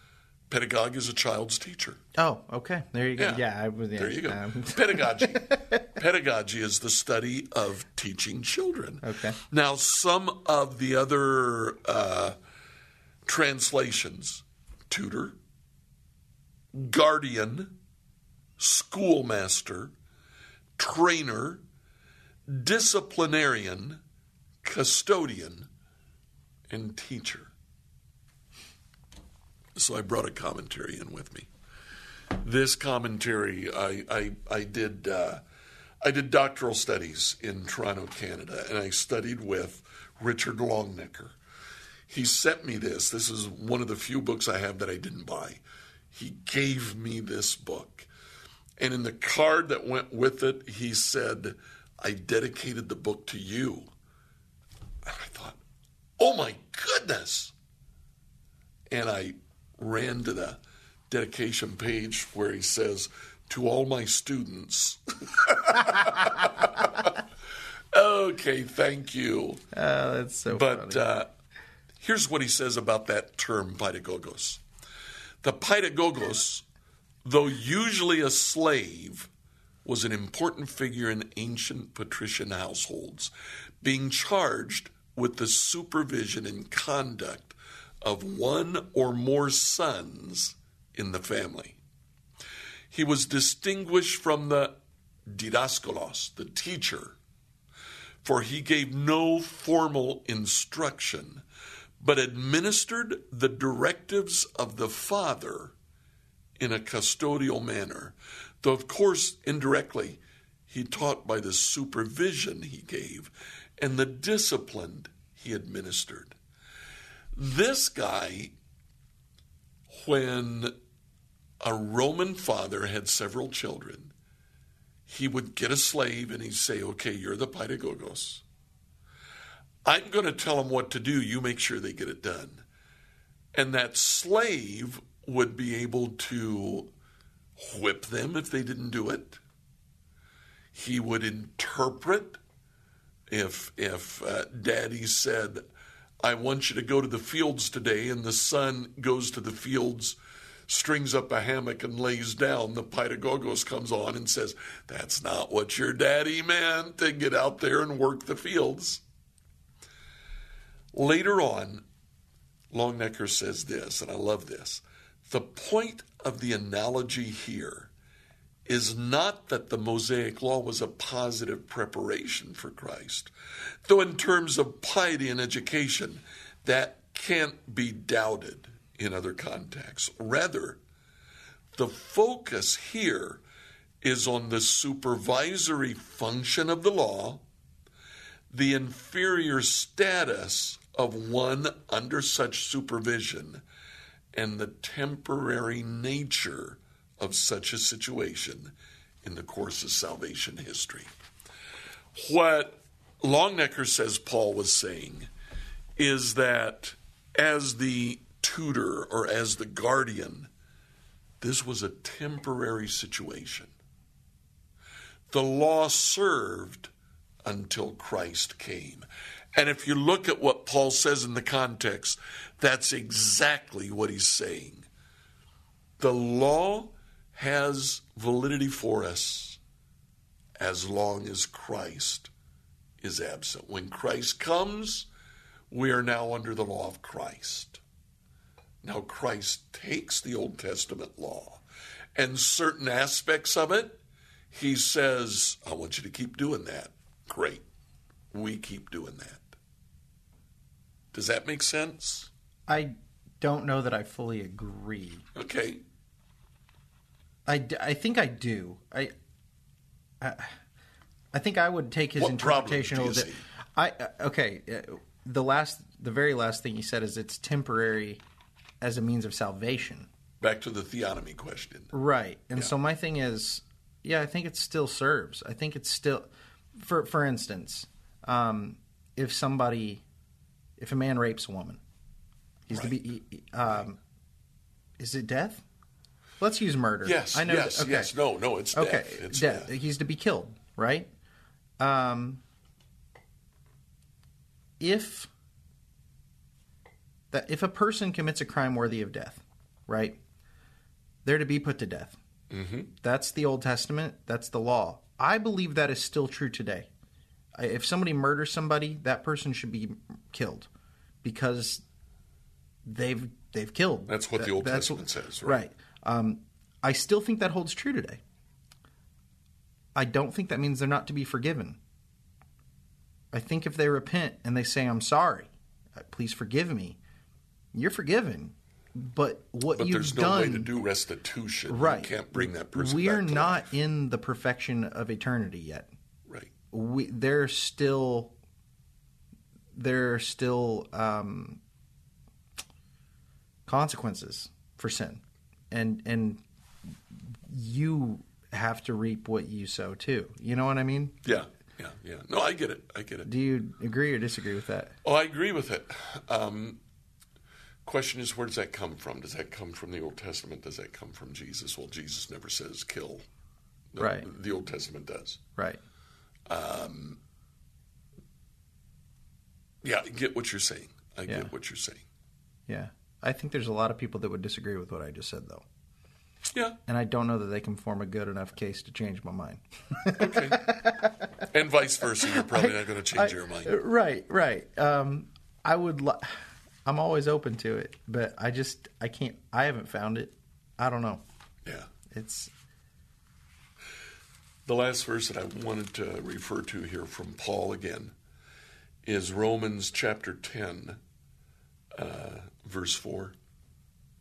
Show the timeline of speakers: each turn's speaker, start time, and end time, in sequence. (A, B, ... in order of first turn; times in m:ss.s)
0:00.5-0:02.0 A
0:02.2-0:05.9 B
0:03.2-0:03.4 A
0:04.0-0:12.4 A
0:09.0-0:09.4 B
0:13.2-0:15.4 A
0:16.7-0:17.8 A
0:18.6-0:19.9 A
0:20.8-0:21.6 A
0:22.5-0:24.0 A
0:24.6-0:25.7 A
0:26.7-0:27.5 A
0:29.8-0:31.5 A
0:32.3-0:35.4 A
0:36.0-0:41.4 A
0:42.1-0:48.1 A
0:48.8-0:53.9 A
0:55.0-0:55.6 A
0:56.2-0:57.5 A
0:58.9-1:07.2 A
1:07.9-1:09.6 A
1:09.7-1:11.0 B
1:10.5-1:11.3 A
1:12.0-1:14.6 A
1:15.4-1:16.6 A
1:17.2-1:19.3 A
1:19.8-1:31.8 A
1:32.9-1:37.2 A
1:38.2-1:41.4 A
1:42.0-1:45.7 A
1:46.6-1:56.4 A
1:57.3-1:58.6 A
1:59.9-2:00.7 A
2:01.6-2:04.1 A
2:05.1-2:08.4 A
2:09.8-2:12.6 A
2:13.5-2:16.9 A
2:17.6-2:19.4 A
2:20.7-2:22.4 A
2:23.3-2:25.6 A
2:26.2-2:30.2 A
2:30.7-2:39.0 A
2:40.9-2:41.8 A
2:42.7-2:47.9 A
2:48.7-2:53.3 A
2:53.8-3:00.8 A
3:01.7-3:03.4 A
3:04.0-3:07.4 A
3:08.5-3:13.6 A
3:14.3-3:21.1 A
3:22.1-3:25.3 A
3:26.0-3:30.5 A
3:31.4-3:33.7 A
3:35.3-3:36.9 A
3:37.4-3:44.9 A
3:46.0-3:49.6 A
3:50.6-3:52.3 A
3:53.0-3:55.1 A
3:55.7-3:57.8 A
3:58.8-4:01.6 A
4:02.2-4:04.0 A
4:04.5-4:07.6 A
4:08.3-4:09.5 A
4:11.1-4:12.3 A
4:12.7-4:15.2 B
4:15.3-4:15.8 A
4:17.4-4:19.1 B
4:20.2-4:20.5 B
4:21.3-4:28.2 B
4:22.2-4:23.4 A
4:28.8-4:30.1 B
4:30.4-4:31.9 A
4:31.9-4:40.0 B
4:40.8-4:41.8 B
4:42.7-4:44.0 B
4:45.0-4:45.6 B
4:46.4-4:48.1 B
4:47.0-4:49.7 A
4:48.7-4:51.1 B
4:51.8-4:52.4 B
4:54.8-4:55.3 B
4:57.3-5:00.2 B
5:01.2-5:02.2 B
5:02.5-5:02.9 A
5:03.0-5:06.9 B
5:07.6-5:10.7 B
5:11.2-5:11.8 B
5:12.8-5:18.2 B
5:14.1-5:15.6 A
5:20.0-5:21.8 B
5:23.3-5:27.0 B
5:27.7-5:30.7 B
5:29.7-5:33.7 A
5:31.7-5:35.9 B
5:36.7-5:38.3 B
5:39.7-5:41.6 B
5:43.6-5:46.4 B
5:47.5-5:51.2 B
5:51.2-5:53.3 A
5:53.2-5:55.0 B
5:55.0-5:56.8 A
5:57.8-6:03.2 A
6:03.9-6:05.4 A
6:04.0-6:04.3 B
6:05.6-6:05.8 B
6:06.5-6:07.2 A
6:09.8-6:12.0 A
6:12.7-6:15.6 B
6:16.9-6:21.1 B
6:20.2-6:20.7 A
6:21.5-6:23.7 A
6:22.2-6:31.2 B
6:31.6-6:31.9 A
6:32.1-6:32.5 B
6:34.6-6:38.1 A
6:39.0-6:41.0 A
6:41.9-6:43.3 A